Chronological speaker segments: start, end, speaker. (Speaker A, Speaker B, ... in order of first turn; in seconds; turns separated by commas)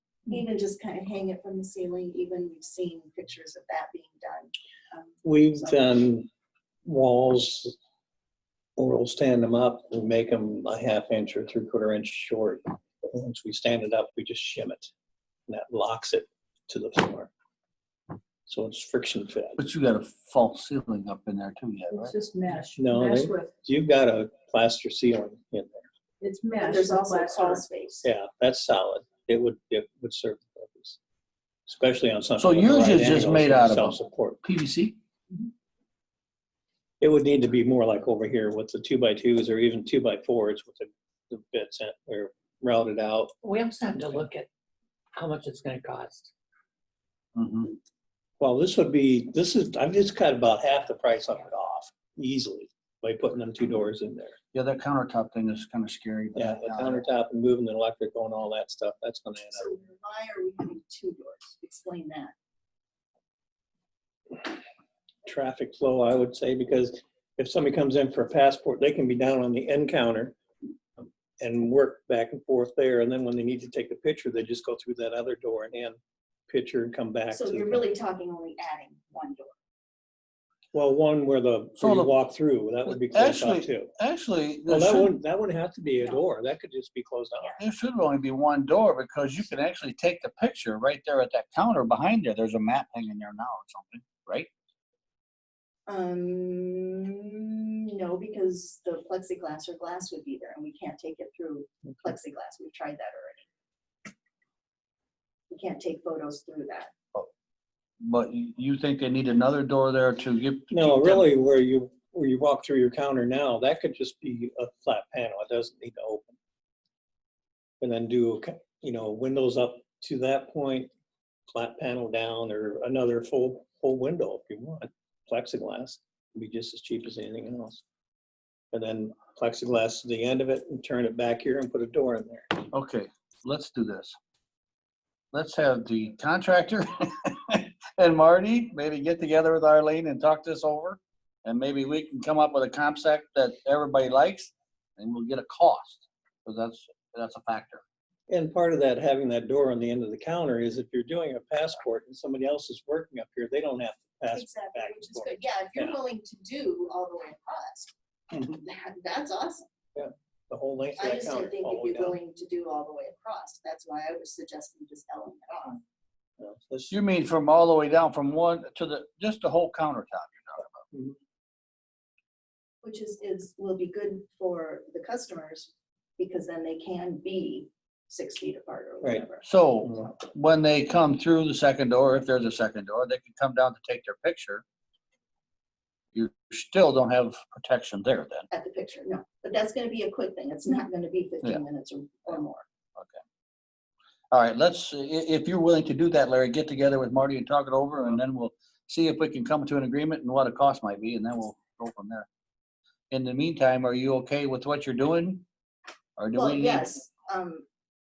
Speaker A: 0.3-5.9, Speaker B: 5.2-6.3, Speaker B: 6.8-7.8, Speaker B: 8.8-14.9, Speaker B: 15.5-17.3, Speaker B: 18.5-19.6, Speaker C: 19.6-22.1, Speaker D: 21.9-23.5, Speaker B: 22.8-25.9, Speaker D: 26.2-27.6, Speaker A: 26.6-28.1, Speaker B: 28.0-31.0, Speaker B: 31.7-34.4, Speaker C: 32.4-35.0, Speaker B: 37.0-43.4, Speaker E: 43.4-44.5, Speaker E: 45.1-46.3, Speaker C: 47.4-47.7, Speaker B: 48.4-54.4, Speaker C: 54.5-57.0, Speaker B: 56.3-59.7, Speaker A: 59.5-62.3, Speaker B: 65.3-70.4, Speaker B: 71.0-77.9, Speaker A: 77.3-79.5, Speaker B: 80.7-83.9, Speaker C: 81.8-82.1, Speaker C: 83.1-85.1, Speaker B: 84.7-87.6, Speaker C: 87.6-94.5, Speaker A: 95.9-103.5, Speaker A: 105.5-106.9, Speaker C: 108.0-111.3, Speaker B: 110.7-116.4, Speaker B: 117.8-120.9, Speaker B: 121.5-127.8, Speaker B: 128.7-132.6, Speaker C: 132.7-134.2, Speaker C: 135.3-147.8, Speaker B: 148.3-156.0, Speaker A: 154.3-159.7, Speaker B: 159.9-162.2, Speaker A: 161.0-165.8, Speaker B: 166.4-166.9, Speaker C: 166.9-170.8, Speaker B: 170.9-171.2, Speaker A: 172.8-179.4, Speaker C: 179.4-184.6, Speaker C: 186.1-188.5, Speaker A: 188.5-192.6, Speaker C: 194.3-202.3, Speaker C: 203.1-205.4, Speaker C: 206.2-206.7, Speaker A: 206.3-207.7